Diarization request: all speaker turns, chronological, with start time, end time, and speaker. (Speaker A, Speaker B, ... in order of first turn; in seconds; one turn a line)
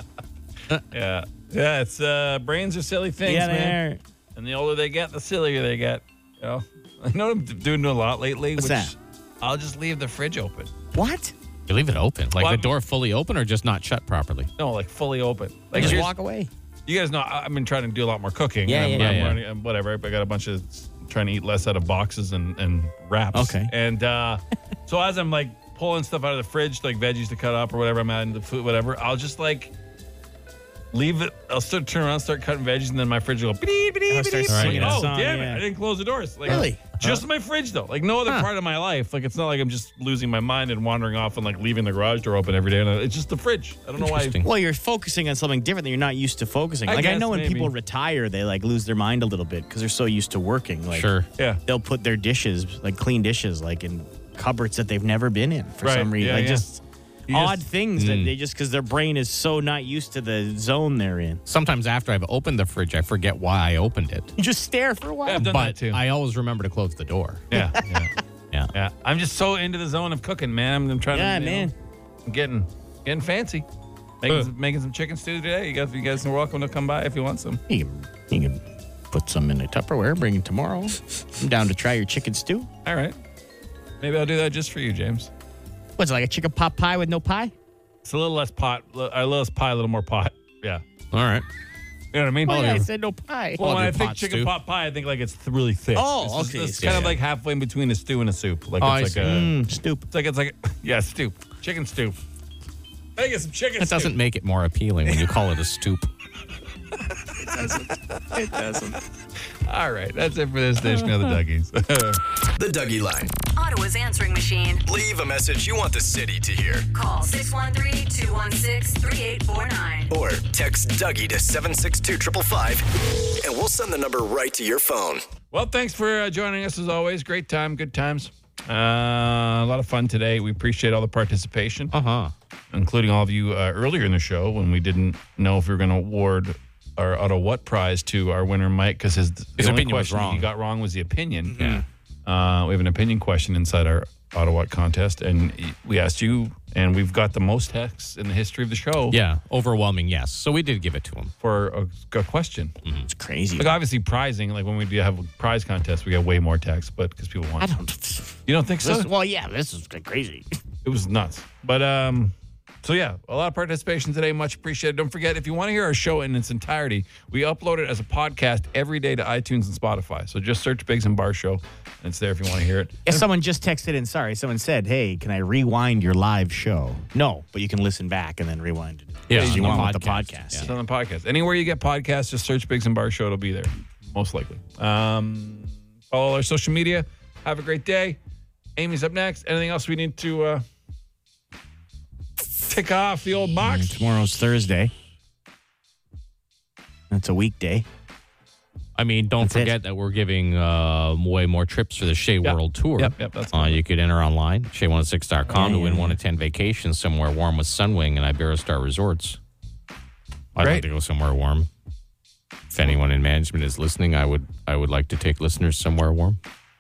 Speaker A: 0.9-3.8
Speaker B: 3.2-4.0
Speaker A: 4.4-10.7
Speaker B: 8.6-8.9
Speaker B: 10.9-11.3
Speaker C: 11.7-14.5
Speaker A: 12.4-12.7
Speaker A: 14.6-16.1
Speaker B: 15.7-16.5
Speaker C: 15.8-16.0
Speaker A: 16.9-29.7
Speaker B: 18.6-19.3
Speaker C: 18.9-19.4
Speaker B: 23.3-23.7
Speaker A: 30.9-44.4
Speaker B: 34.1-35.6
Speaker C: 34.5-35.1
Speaker B: 36.4-37.2
Speaker C: 44.0-44.5
Speaker B: 44.4-51.1
Speaker A: 46.9-47.7
Speaker C: 50.9-51.3
Speaker B: 51.7-61.4
Speaker A: 55.8-56.6
Speaker A: 57.3-57.6
Speaker C: 58.0-58.3
Speaker C: 61.5-64.3
Speaker B: 64.4-65.5
Speaker A: 65.3-66.0
Speaker C: 65.3-67.4
Speaker A: 67.5-68.1
Speaker B: 67.5-67.8
Speaker A: 68.7-71.7
Speaker B: 71.1-71.7
Speaker A: 72.2-73.6
Speaker A: 74.2-77.6
Speaker B: 77.7-82.7
Speaker A: 82.8-83.1
Speaker A: 84.0-85.3
Speaker B: 86.0-87.5
Speaker A: 88.0-90.8
Speaker C: 91.1-91.4
Speaker A: 92.1-92.8
Speaker B: 92.5-93.9
Speaker C: 92.5-92.8
Speaker A: 93.6-99.5
Speaker C: 93.6-94.5
Speaker B: 96.0-97.2
Speaker C: 96.8-97.1
Speaker C: 98.8-99.3
Speaker B: 99.2-100.1
Speaker A: 100.1-102.2
Speaker A: 103.2-104.1
Speaker C: 103.8-106.1
Speaker A: 107.3-108.8
Speaker B: 107.4-109.0
Speaker A: 109.7-112.2
Speaker D: 112.6-113.3
Speaker E: 113.5-114.8
Speaker D: 114.9-116.9
Speaker E: 116.9-120.1
Speaker D: 120.1-125.2
Speaker A: 125.5-131.9
Speaker C: 131.9-132.3
Speaker A: 132.7-149.2
Speaker C: 139.6-140.5
Speaker B: 141.5-141.8
Speaker C: 141.6-141.8
Speaker C: 149.1-151.3
Speaker A: 151.4-152.7
Speaker B: 153.1-153.8
Speaker A: 153.6-157.7
Speaker B: 157.6-160.6
Speaker A: 158.5-159.1
Speaker A: 160.8-173.1
Speaker B: 173.1-180.7
Speaker C: 179.3-180.7
Speaker A: 179.3-188.2
Speaker A: 188.8-190.6
Speaker A: 192.6-194.0
Speaker B: 193.6-194.9
Speaker B: 197.1-197.9
Speaker C: 198.9-209.4
Speaker B: 199.4-199.8
Speaker A: 202.4-203.8
Speaker B: 205.5-206.2
Speaker C: 210.6-211.7
Speaker A: 210.6-210.8
Speaker C: 212.7-216.4